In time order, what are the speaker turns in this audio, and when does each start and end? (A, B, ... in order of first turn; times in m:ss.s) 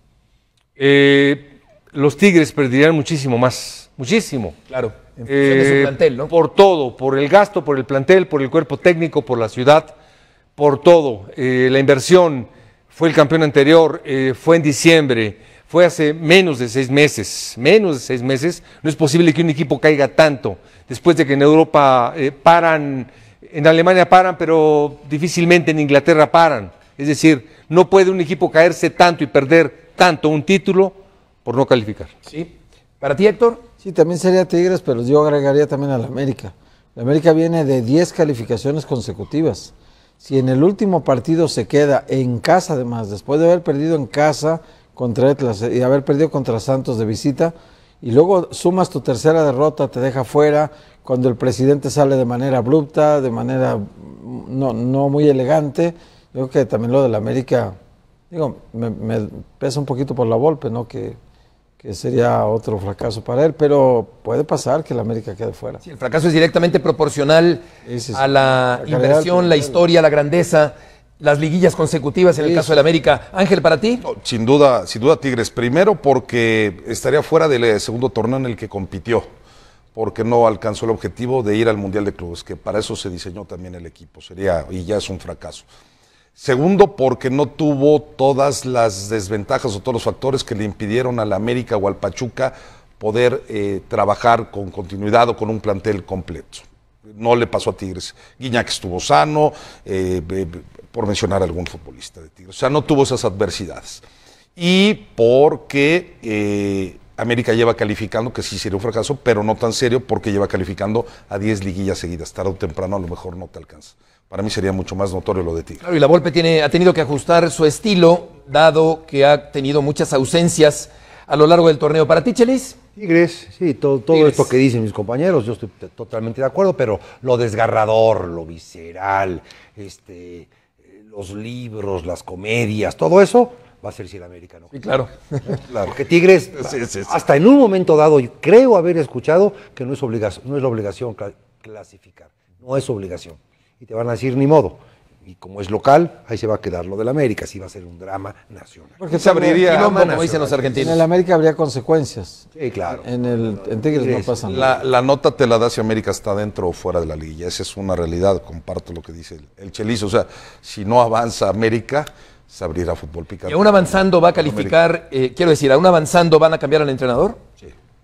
0:00.8-0:04.6 A
0:04.7-0:06.3 B
0:05.2-0:09.9 A
0:10.6-0:32.1 A
0:32.3-0:33.6 B
0:33.8-0:57.8 C
0:58.3-1:01.2 C
1:01.8-1:05.8 C
1:05.8-1:14.0 B
1:07.8-1:09.8 C
1:12.4-1:12.8 C
1:14.0-1:19.3 D
1:19.9-1:25.6 D
1:26.4-1:44.0 D
1:44.6-1:55.8 D
1:55.8-2:02.8 B
2:03.0-2:14.8 E
2:04.1-2:04.4 B
2:14.7-2:15.4 B
2:15.5-2:31.0 E
2:16.6-2:17.1 D
2:29.0-2:29.6 C
2:29.1-2:29.9 D
2:29.6-2:31.0 B
2:30.8-2:32.5 C
2:32.6-2:34.8 E
2:33.0-2:34.7 C
2:34.5-2:44.8 D
2:43.5-2:47.4 B